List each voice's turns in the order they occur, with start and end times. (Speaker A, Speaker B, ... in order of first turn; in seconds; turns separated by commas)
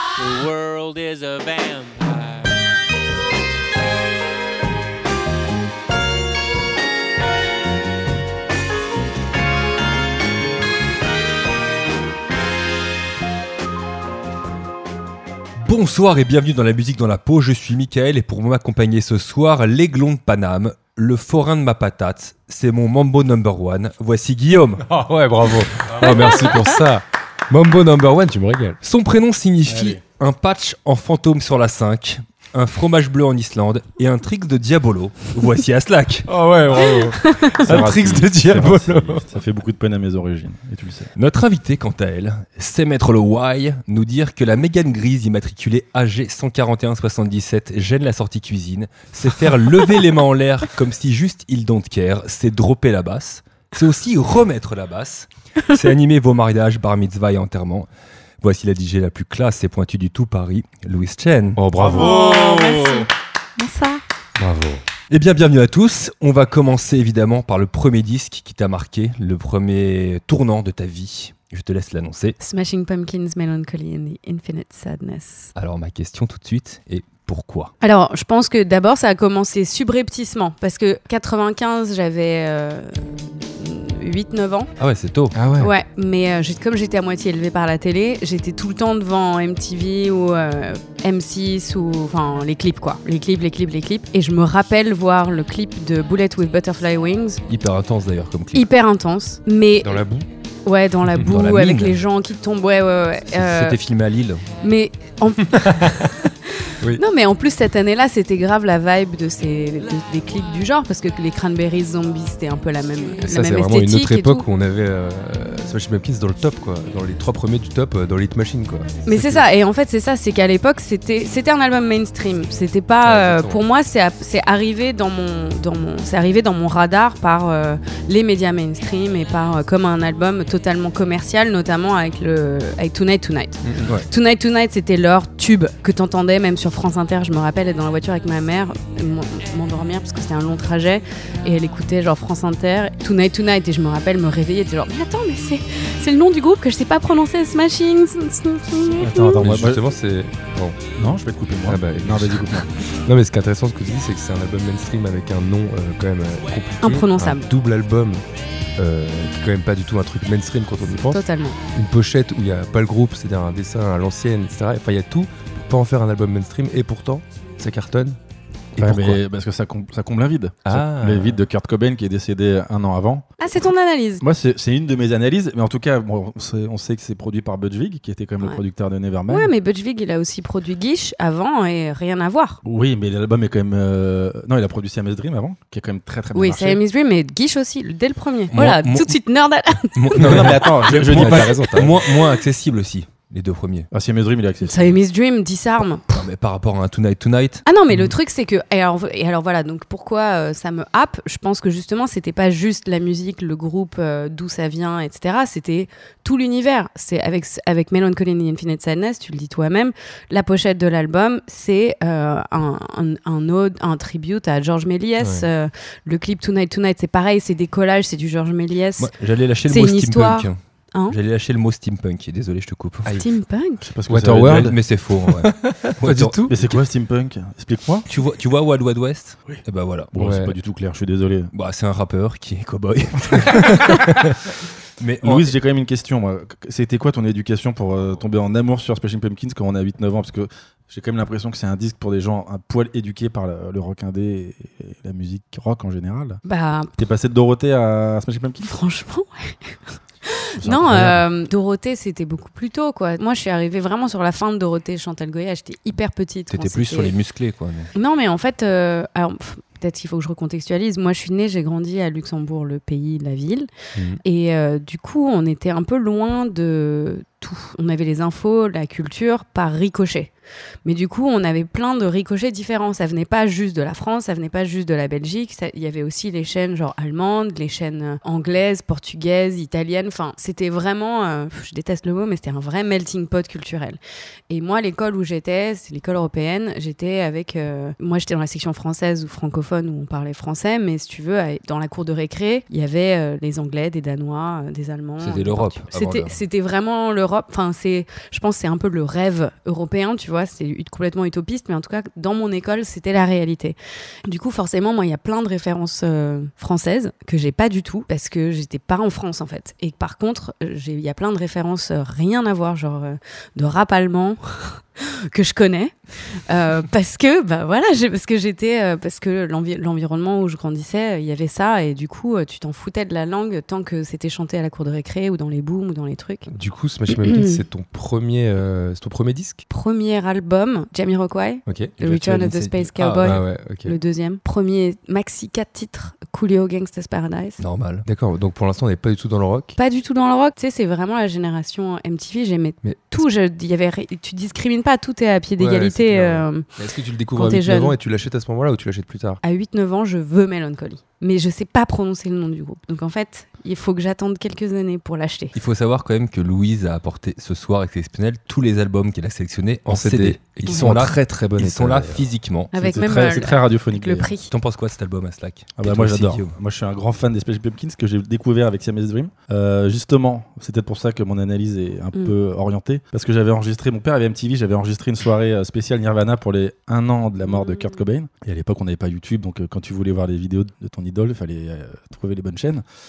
Speaker A: 0.2-2.6, Speaker B: 15.6-24.9, Speaker C: 24.9-28.8, Speaker B: 26.0-26.6, Speaker B: 28.8-36.3, Speaker D: 29.6-30.0, Speaker C: 36.3-39.2, Speaker E: 36.8-37.6, Speaker D: 37.6-41.1, Speaker B: 37.7-38.2, Speaker B: 41.1-57.9, Speaker B: 58.4-61.6, Speaker C: 61.6-62.1, Speaker D: 61.8-63.0, Speaker E: 61.9-64.0, Speaker C: 64.4-64.8, Speaker B: 65.1-72.3, Speaker E: 72.4-75.5, Speaker B: 75.5-77.7, Speaker E: 77.8-84.7, Speaker B: 84.8-85.4, Speaker C: 85.3-85.7, Speaker E: 85.6-97.4, Speaker B: 97.5-98.7, Speaker E: 98.5-100.0, Speaker C: 99.8-100.3, Speaker E: 100.6-103.8, Speaker B: 101.1-102.0, Speaker B: 103.4-104.4, Speaker E: 104.6-105.8, Speaker C: 105.5-106.1, Speaker E: 106.5-114.5, Speaker C: 113.2-119.4, Speaker E: 119.1-149.4, Speaker C: 123.0-123.6, Speaker C: 133.6-133.9, Speaker D: 149.0-149.8, Speaker C: 149.3-150.8, Speaker D: 150.9-152.7, Speaker C: 151.7-158.2, Speaker E: 156.8-157.4, Speaker C: 158.8-168.2, Speaker E: 161.1-161.6, Speaker C: 168.8-169.2, Speaker D: 168.8-173.3, Speaker C: 170.7-171.4, Speaker E: 173.4-174.2, Speaker D: 174.2-179.5, Speaker E: 179.3-182.6, Speaker D: 182.6-186.8, Speaker E: 186.3-190.7, Speaker B: 188.5-189.2, Speaker B: 189.9-193.9, Speaker D: 190.1-192.1, Speaker C: 190.2-192.1, Speaker D: 193.9-195.0, Speaker E: 194.6-196.2, Speaker B: 196.1-197.6, Speaker E: 197.6-219.1, Speaker C: 215.2-215.5, Speaker B: 219.0-220.6, Speaker E: 219.7-221.2, Speaker B: 221.1-223.1, Speaker E: 223.2-223.8, Speaker D: 223.8-224.7, Speaker C: 224.1-226.6, Speaker B: 224.4-226.4, Speaker D: 226.4-228.1, Speaker B: 228.1-230.1, Speaker D: 230.1-231.5, Speaker C: 230.2-230.5, Speaker B: 231.5-235.5, Speaker D: 235.2-246.4, Speaker E: 246.4-246.9, Speaker D: 246.9-248.7, Speaker E: 248.6-257.1, Speaker D: 250.6-251.2, Speaker B: 256.5-257.9, Speaker E: 257.9-263.7, Speaker C: 263.9-264.2, Speaker E: 264.2-270.3, Speaker E: 270.8-284.0, Speaker E: 284.5-326.5, Speaker B: 295.2-296.4, Speaker C: 326.5-329.6, Speaker E: 327.2-327.6, Speaker E: 329.7-337.6, Speaker C: 331.6-331.9, Speaker B: 332.0-333.4, Speaker C: 333.2-334.0, Speaker B: 337.6-338.1, Speaker C: 338.0-339.8, Speaker E: 339.8-346.6, Speaker C: 342.8-343.2, Speaker C: 345.6-349.4, Speaker E: 347.3-347.9, Speaker E: 349.4-355.5, Speaker B: 355.5-362.7, Speaker C: 359.9-362.3, Speaker E: 362.7-364.5, Speaker D: 362.7-364.3, Speaker B: 364.5-366.5, Speaker D: 365.8-382.8